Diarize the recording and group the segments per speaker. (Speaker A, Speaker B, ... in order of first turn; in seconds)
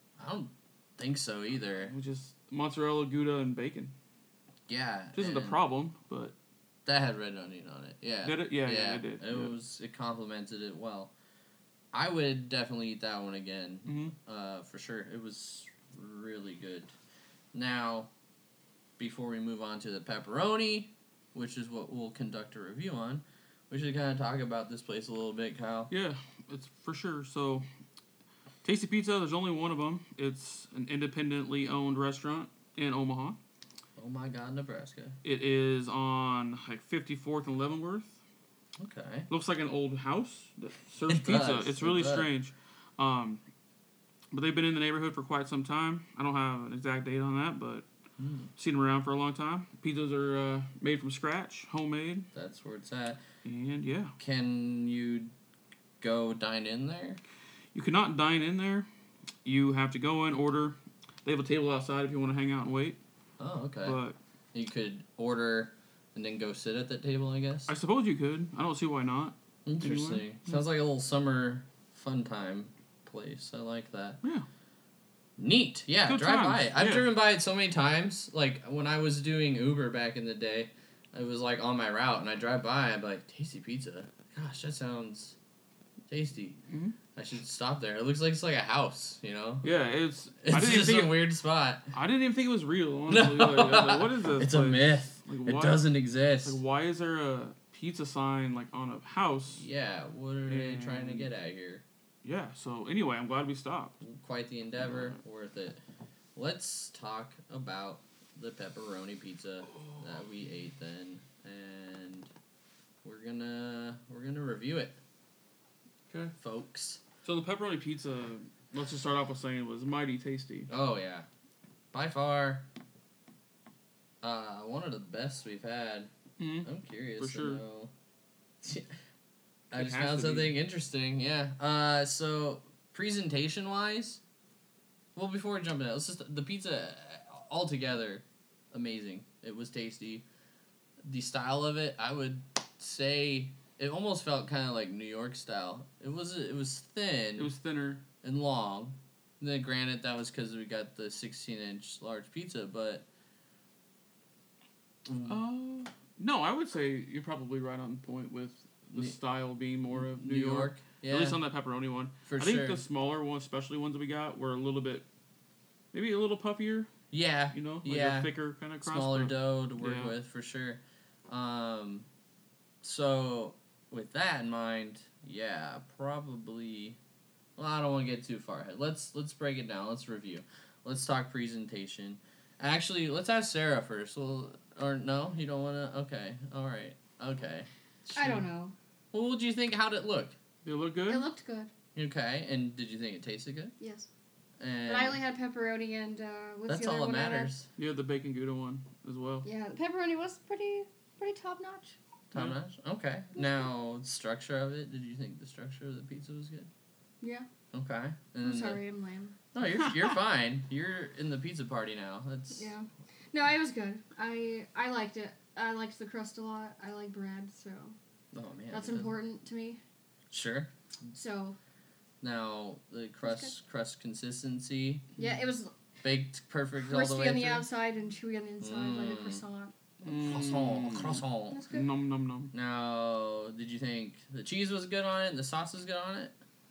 Speaker A: 0.2-1.9, 4.7-5.6, 6.8-11.1, 11.9-16.9, 17.5-18.1, 19.0-25.9, 34.0-35.1, 38.8-39.3, 41.1-42.3, 48.2-48.5, 52.3-53.2, 54.2-55.3, 56.0-57.2, 63.4-64.0, 64.5-67.7, 69.7-74.2, 75.4-85.3, 86.1-86.6, 87.1-89.7, 90.4-91.9, 93.1-96.6, 99.5-101.8, 104.0-105.8, 106.3-112.3, 113.0-115.0, 116.4-117.0, 120.7-121.2, 121.9-122.7, 124.2-126.1, 126.6-127.9, 128.6-128.9, 129.7-134.2, 135.1-140.2, 141.0-147.5, 148.2-153.1, 155.1-155.4, 159.9-161.4, 162.3-162.8, 167.1-172.1, 172.8-177.0, 177.6-188.4, 189.1-190.3, 191.9-193.7, 194.6-195.2, 196.7-197.7, 202.3-206.7, 207.7-208.8, 209.5-212.7, 218.3-219.2, 220.3-220.7, 222.2-225.1, 226.0-227.7, 228.6-229.4, 230.2-231.6, 232.5-236.3
Speaker B: 1.8-3.9, 5.1-6.3, 8.2-9.5, 13.9-14.1, 25.9-27.6, 28.6-33.4, 35.2-38.1, 39.3-43.4, 44.3-47.9, 48.6-52.3, 53.4-54.1, 57.7-58.9, 59.4-63.0, 63.8-64.2, 67.7-70.6, 76.0-77.1, 86.7-86.9, 89.6-91.2, 91.9-95.8, 96.4-99.6, 100.5-101.3, 102.2-103.9, 104.8-105.2, 109.7-110.1, 117.2-120.7, 126.4-127.6, 129.7-130.5, 147.4-148.0, 155.2-165.0, 165.9-166.9, 167.5-170.1, 190.6-191.2, 197.8-199.4, 230.0-232.5
Speaker C: 188.2-188.7, 191.1-191.7, 193.8-194.1, 194.9-197.5, 199.4-201.9, 203.3-203.7, 207.2-207.5, 208.4-209.3, 212.5-217.9, 218.7-219.8, 221.1-221.6, 223.2-223.5, 225.2-225.7, 226.8-230.3, 231.5-231.9